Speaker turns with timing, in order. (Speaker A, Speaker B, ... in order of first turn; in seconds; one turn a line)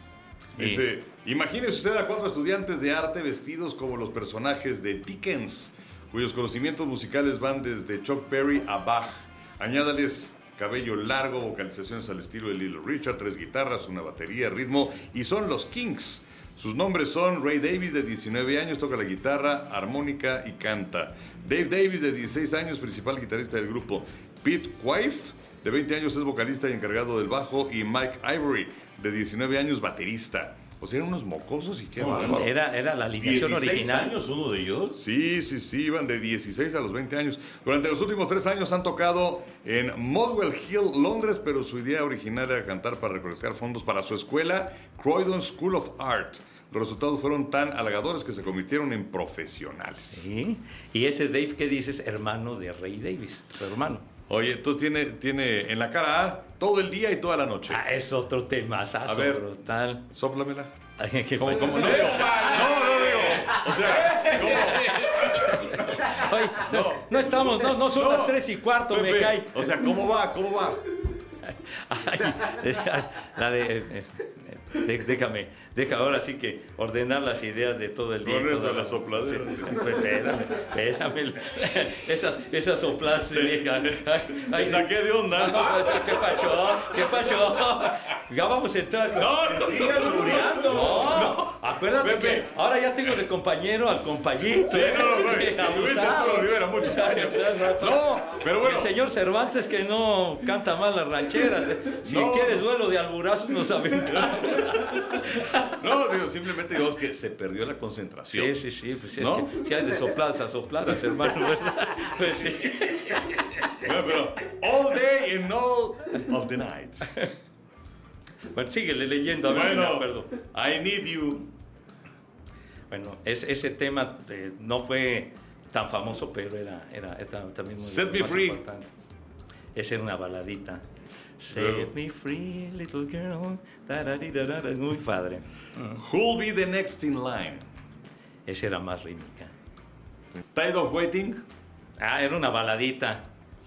Speaker A: 0.6-0.8
Speaker B: 0.6-32.5
Speaker C: 32.0-32.5
Speaker A: 32.2-34.1
Speaker C: 33.2-35.0
Speaker B: 35.0-50.3
Speaker A: 50.1-54.0
Speaker B: 54.3-57.9
Speaker A: 57.7-60.0
Speaker B: 59.0-59.4
Speaker B: 60.1-60.7
Speaker A: 61.0-62.3
Speaker B: 61.4-65.6
Speaker C: 61.6-65.9
Speaker A: 64.8-69.6
Speaker B: 66.6-70.8
Speaker A: 71.4-89.8
Speaker B: 78.2-80.1
Speaker B: 83.3-86.1
Speaker C: 85.7-86.3
Speaker B: 89.1-92.5
Speaker C: 89.4-91.2
Speaker A: 90.7-105.7
Speaker B: 94.6-98.9
Speaker B: 102.0-102.6
Speaker B: 105.7-108.5
Speaker A: 108.3-113.5
Speaker B: 109.2-109.6
Speaker B: 113.8-117.1
Speaker A: 118.5-120.3
Speaker B: 119.4-121.5
Speaker A: 122.9-128.8
Speaker B: 127.8-128.6
Speaker A: 129.7-130.8
Speaker A: 131.4-136.0
Speaker B: 131.5-131.9
Speaker B: 135.9-137.7
Speaker A: 138.4-139.5
Speaker B: 140.5-141.4
Speaker A: 142.0-143.2